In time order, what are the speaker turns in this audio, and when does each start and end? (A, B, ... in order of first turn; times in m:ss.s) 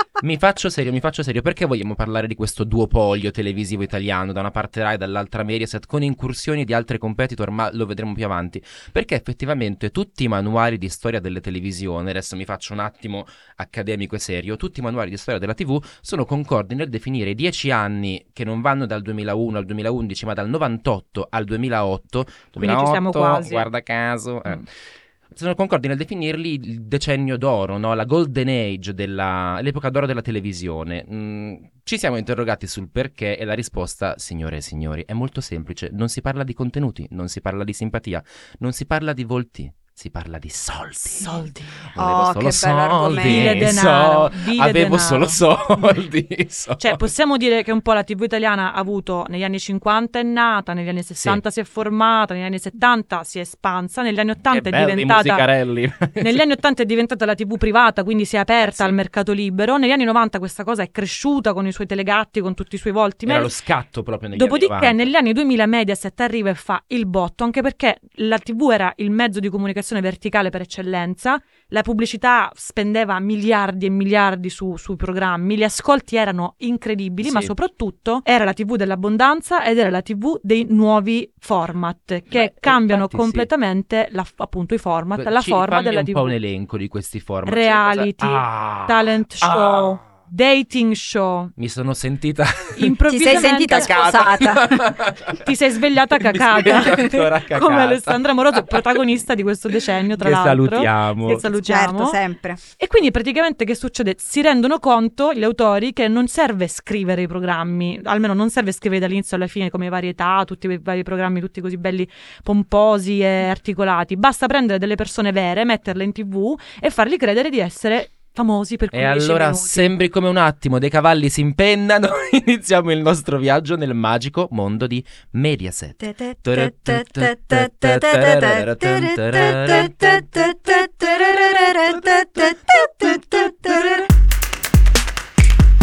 0:00.2-0:24.7 A
0:22.6-0:23.6 B
0:25.3-0:47.0 A
0:41.2-0:41.8 B
0:42.0-0:43.7 C
0:43.2-0:45.4 B
0:46.8-0:55.4 B
0:54.5-0:56.4 A
0:56.2-1:03.5 B
0:58.7-0:58.9 A
1:03.2-1:05.1 A
1:04.3-1:26.3 B
1:17.2-1:17.5 A
1:22.3-1:23.5 A
1:25.2-1:30.0 A
1:27.4-1:31.5 B
1:31.6-1:39.0 A
1:32.7-1:33.9 B
1:33.1-1:35.0 C
1:35.4-1:42.2 B
1:40.2-1:41.4 A
1:41.5-1:42.6 C
1:42.8-1:59.9 B
1:58.9-2:10.6 A
2:06.0-2:14.1 C
2:11.9-2:12.4 A